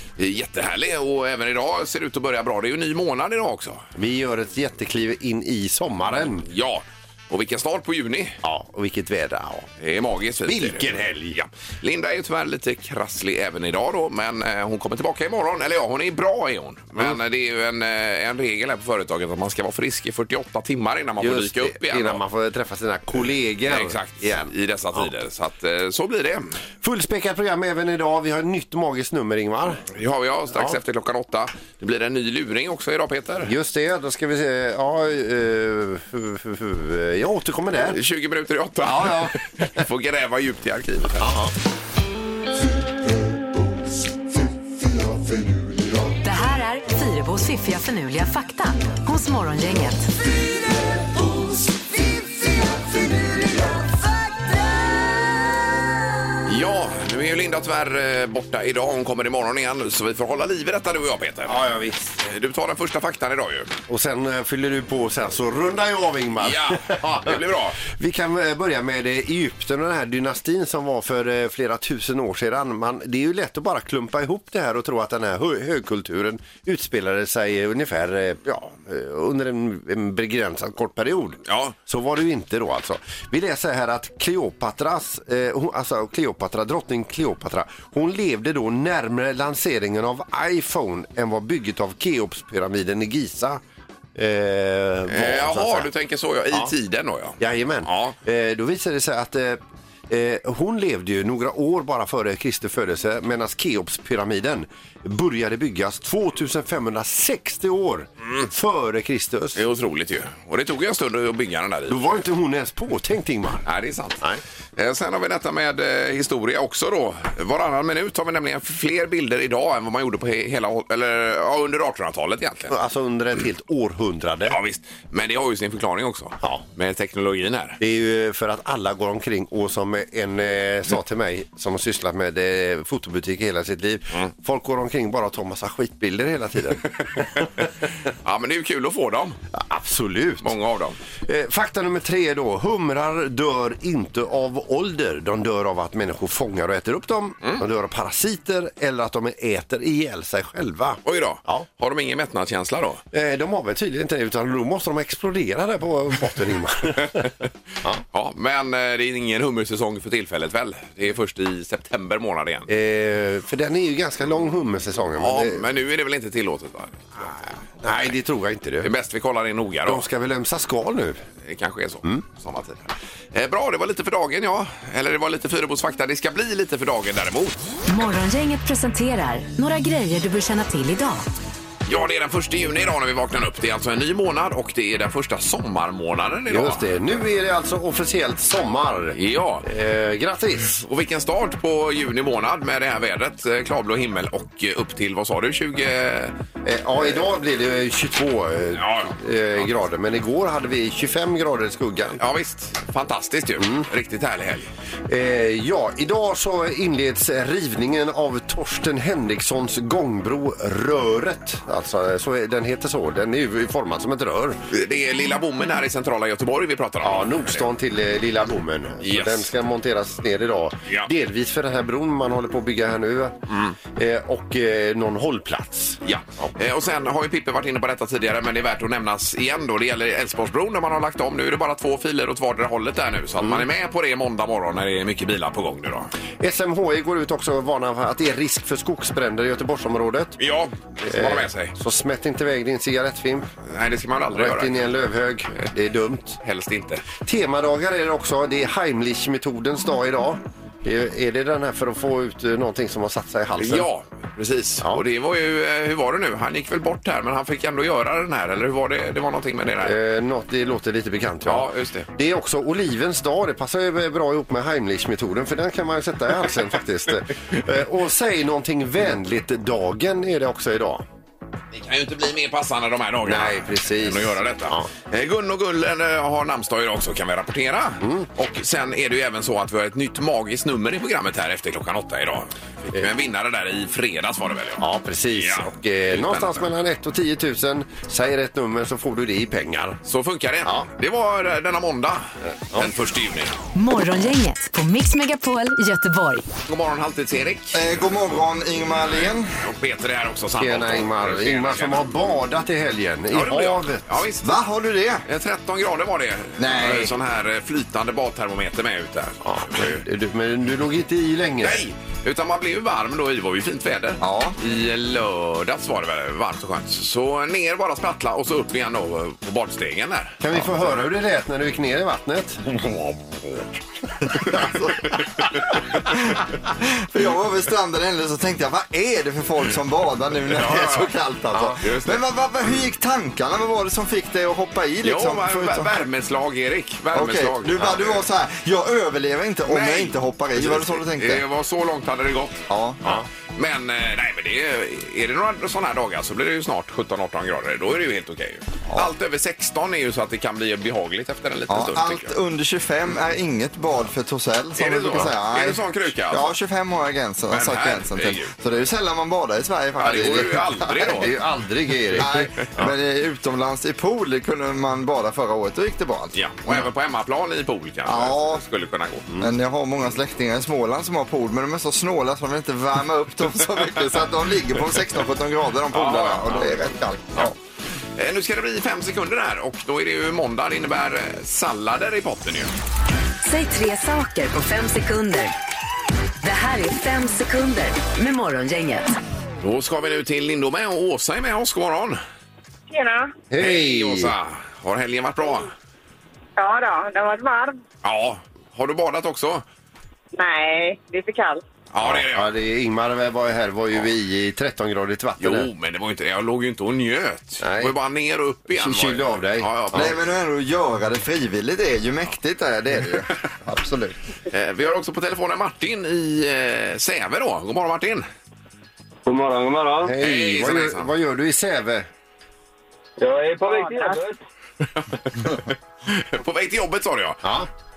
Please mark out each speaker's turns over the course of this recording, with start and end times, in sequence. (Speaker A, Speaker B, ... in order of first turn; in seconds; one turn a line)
Speaker A: 0.2-3.9
Speaker B: 4.0-6.5
Speaker A: 6.4-8.4
Speaker B: 8.4-9.7
Speaker A: 9.8-22.2
Speaker B: 10.5-11.4
Speaker B: 21.2-25.0
Speaker A: 23.7-26.6
Speaker B: 26.8-29.8
Speaker A: 29.9-33.5
Speaker B: 33.4-38.0
Speaker A: 37.8-41.2
Speaker B: 38.8-39.8
Speaker B: 41.2-41.5
Speaker C: 46.2-50.1
Speaker A: 56.5-61.6
Speaker B: 61.5-62.2
Speaker A: 62.2-63.7
Speaker B: 63.9-93.6
Speaker A: 66.4-67.8
Speaker A: 81.5-81.8
Speaker B: 94.1-95.9
Speaker A: 95.1-98.2
Speaker B: 97.4-109.6
Speaker A: 109.5-112.2
Speaker B: 111.9-113.7
Speaker A: 113.7-114.2
Speaker A: 114.8-122.7
Speaker B: 122.7-124.6
Speaker A: 124.5-127.8
Speaker B: 127.8-136.8
Speaker A: 137.3-137.7
Speaker A: 138.2-139.4
Speaker B: 139.5-140.5
Speaker A: 140.4-141.0
Speaker B: 141.3-151.7
Speaker A: 151.0-153.0
Speaker B: 153.1-157.3
Speaker A: 158.1-162.7
Speaker B: 162.7-165.6
Speaker A: 165.2-168.1
Speaker B: 167.8-168.9
Speaker A: 168.8-170.0
Speaker B: 169.8-171.2
Speaker A: 171.4-177.6
Speaker C: 177.9-181.2
Speaker A: 181.8-186.9
Speaker B: 186.5-190.8
Speaker A: 189.1-189.7
Speaker A: 190.7-196.4
Speaker B: 196.6-202.2
Speaker A: 198.8-199.1
Speaker A: 202.2-204.7
Speaker B: 203.6-203.8
Speaker B: 205.1-214.6
Speaker A: 214.7-217.7
Speaker B: 217.0-226.5
Speaker A: 219.0-219.5
Speaker A: 226.0-236.1
Speaker B: 236.4-240.4
Speaker A: 240.4-241.7
Speaker B: 241.1-243.5
Speaker A: 243.7-244.9
Speaker B: 244.3-246.4
Speaker A: 246.4-247.0
Speaker B: 247.2-253.9
Speaker A: 253.6-259.9
Speaker B: 259.8-271.0
Speaker A: 261.4-262.1
Speaker A: 271.7-284.8
Speaker B: 273.2-274.9
Speaker B: 278.0-278.3
Speaker B: 284.8-290.0
Speaker A: 285.4-286.7
Speaker A: 290.1-293.6
Speaker B: 292.5-292.9
Speaker C: 293.8-296.5
Speaker A: 296.7-297.9
Speaker D: 297.7-299.5
Speaker A: 299.1-302.1
Speaker B: 300.6-304.2
Speaker A: 303.3-304.6
Speaker D: 304.4-305.2
Speaker A: 305.2-310.0
Speaker D: 306.6-307.1
Speaker B: 309.4-311.8
Speaker A: 311.6-320.4
Speaker D: 314.2-314.5
Speaker B: 320.4-322.6
Speaker A: 322.7-323.6
Speaker D: 324.5-325.1
Speaker D: 326.2-335.9
Speaker A: 330.5-331.1
Speaker A: 331.8-332.2
Speaker A: 335.0-338.3
Speaker D: 337.1-341.4
Speaker A: 339.7-352.3
Speaker D: 342.7-343.0
Speaker D: 351.7-361.3
Speaker A: 354.8-356.5
Speaker A: 357.5-358.5
Speaker A: 360.0-361.3
Speaker B: 361.1-362.9
Speaker D: 362.1-366.9
Speaker A: 366.3-369.3
Speaker D: 368.1-368.6
Speaker D: 369.4-377.5
Speaker A: 375.9-376.7
Speaker A: 378.2-382.7
Speaker C: 383.4-385.5
Speaker C: 386.4-389.1
Speaker A: 389.6-392.2
Speaker E: 392.9-393.3
Speaker B: 393.5-394.3
Speaker A: 393.6-395.7
Speaker E: 396.6-397.8
Speaker A: 398.0-399.6
Speaker E: 400.3-401.6
Speaker A: 401.9-402.5
Speaker B: 402.0-405.7
Speaker A: 405.4-410.2
Speaker B: 407.6-407.9
Speaker B: 408.7-410.1
Speaker D: 409.9-414.2
Speaker A: 414.5-418.2
Speaker F: 419.2-420.1
Speaker B: 420.0-422.1
Speaker A: 420.2-421.1
Speaker F: 423.2-424.4
Speaker E: 423.6-424.2
Speaker A: 425.0-427.4
Speaker B: 427.4-427.7